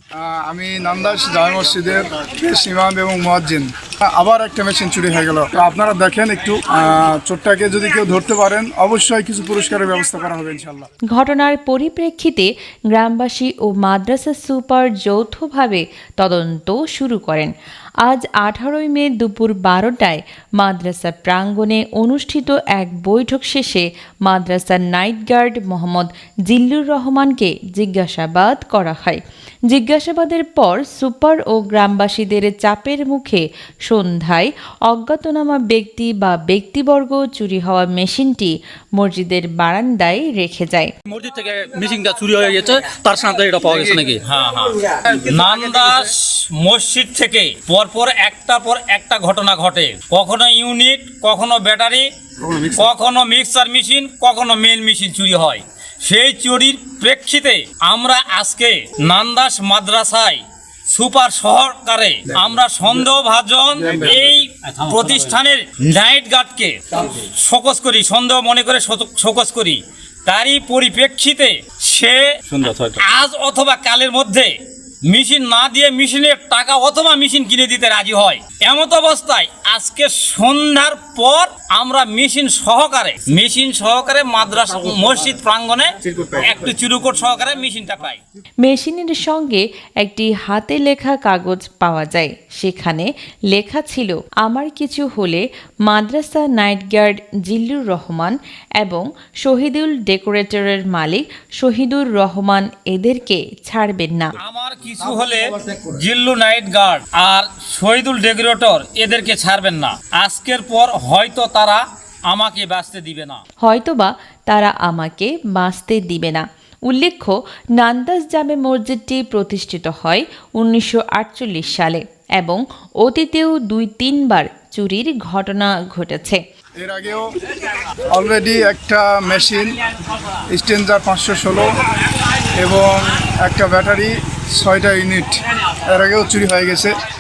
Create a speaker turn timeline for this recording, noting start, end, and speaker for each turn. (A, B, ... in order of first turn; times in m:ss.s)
0:00.2-0:10.9 A
0:11.1-0:17.5 B
0:18.0-0:40.9 B
0:41.1-0:44.2 C
0:43.8-1:14.5 D
1:04.9-1:05.3 C
1:15.1-1:28.2 D
1:28.6-1:44.4 B
1:44.4-1:53.4 D
1:53.6-2:06.4 B
2:06.8-2:07.2 A
2:08.1-2:09.8 A
2:10.5-2:11.7 A
2:12.6-2:17.0 A